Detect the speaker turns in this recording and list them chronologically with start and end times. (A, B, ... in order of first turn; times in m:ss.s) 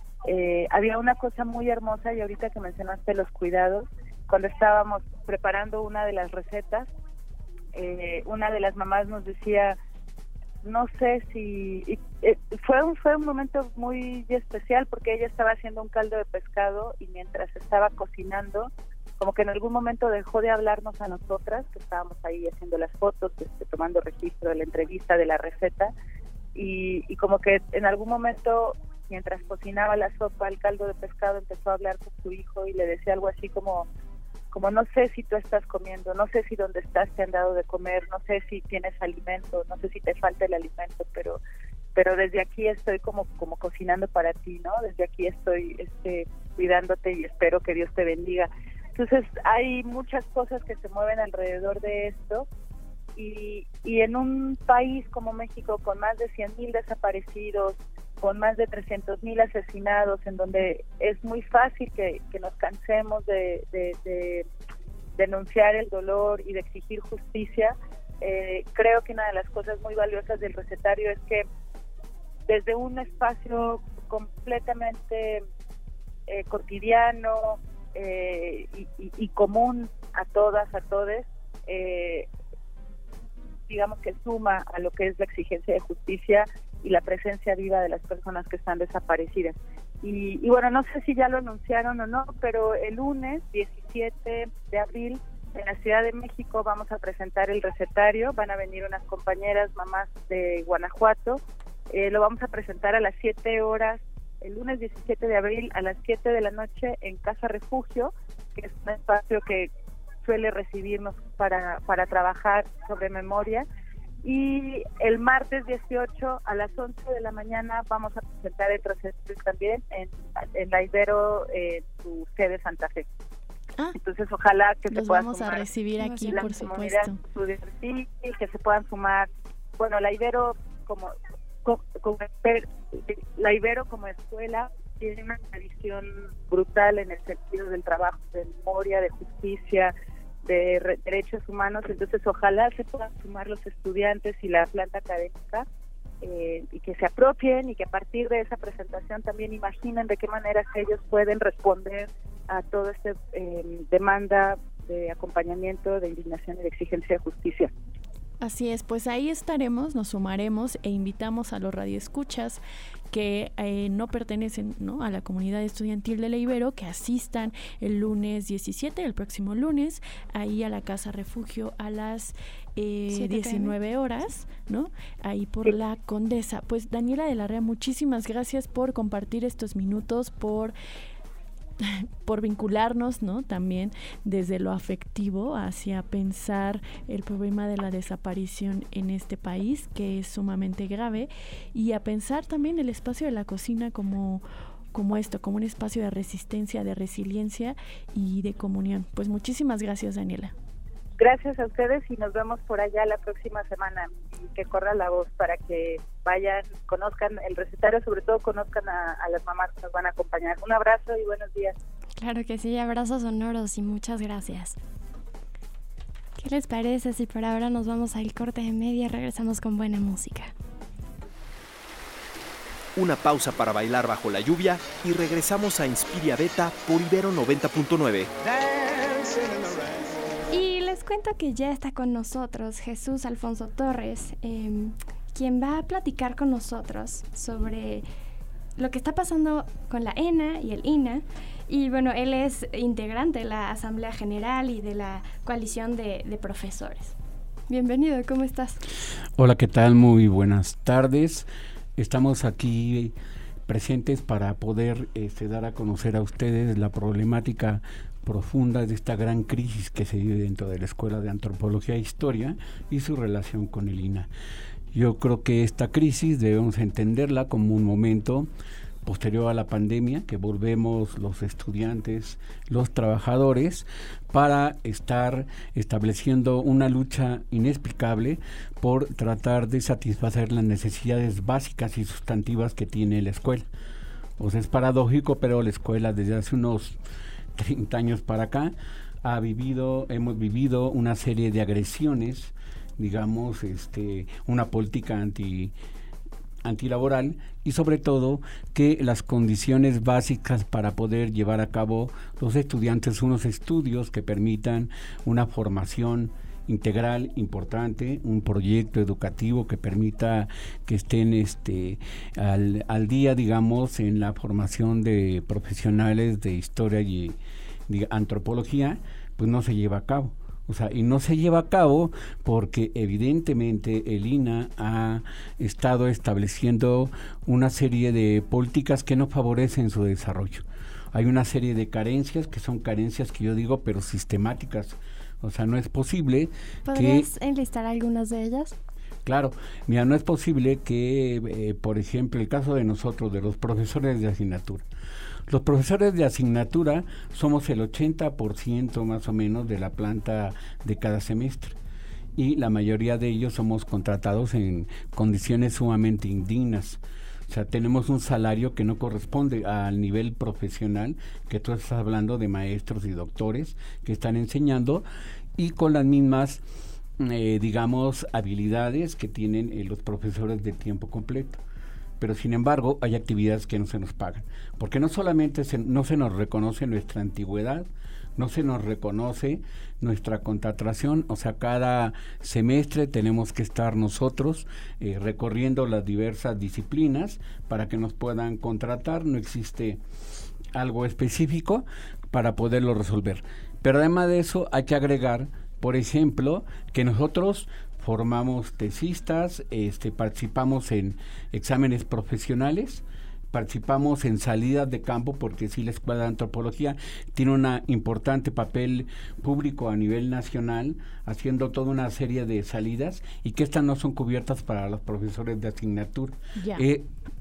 0:00.2-0:06.9 A
0:07.7-0:09.8 A
0:10.6-0:25.9 A
0:26.5-0:33.9 A
0:34.5-0:41.4 A
0:42.0-0:52.4 A
0:53.2-1:04.4 A
1:05.2-1:11.4 A
1:12.5-1:15.4 A
1:16.3-1:22.3 A
1:23.7-1:49.7 A
1:50.2-1:53.6 A
1:54.2-2:03.1 A
2:04.0-2:05.7 A
2:04.9-2:07.2 B
2:06.0-2:06.6 C
2:06.3-2:11.1 A
2:11.6-2:19.9 A
2:20.4-2:25.6 A
2:26.2-2:37.7 A
2:38.4-2:42.6 B
2:43.1-3:00.7 B
2:53.1-2:53.7 C
3:01.8-3:20.5 B
3:21.2-3:31.7 A
3:32.2-3:34.8 C
3:36.4-3:40.5 C
3:43.0-3:48.3 D
3:50.5-3:58.0 C
3:58.8-4:07.2 C
4:07.7-4:08.8 C
4:09.4-4:13.1 E
4:13.7-4:24.3 E
4:24.9-4:28.5 E
4:29.0-4:43.7 E
4:44.4-4:47.0 E
4:47.6-4:55.7 E
4:56.6-5:17.4 E
5:17.9-5:37.3 E
5:36.9-5:38.8 C
5:39.2-5:44.8 E
5:45.5-5:51.8 E
5:52.4-6:05.0 E
6:05.6-6:06.6 E
6:07.2-6:11.6 E
6:12.2-6:30.0 E
6:30.7-6:57.1 E
6:56.6-6:56.8 B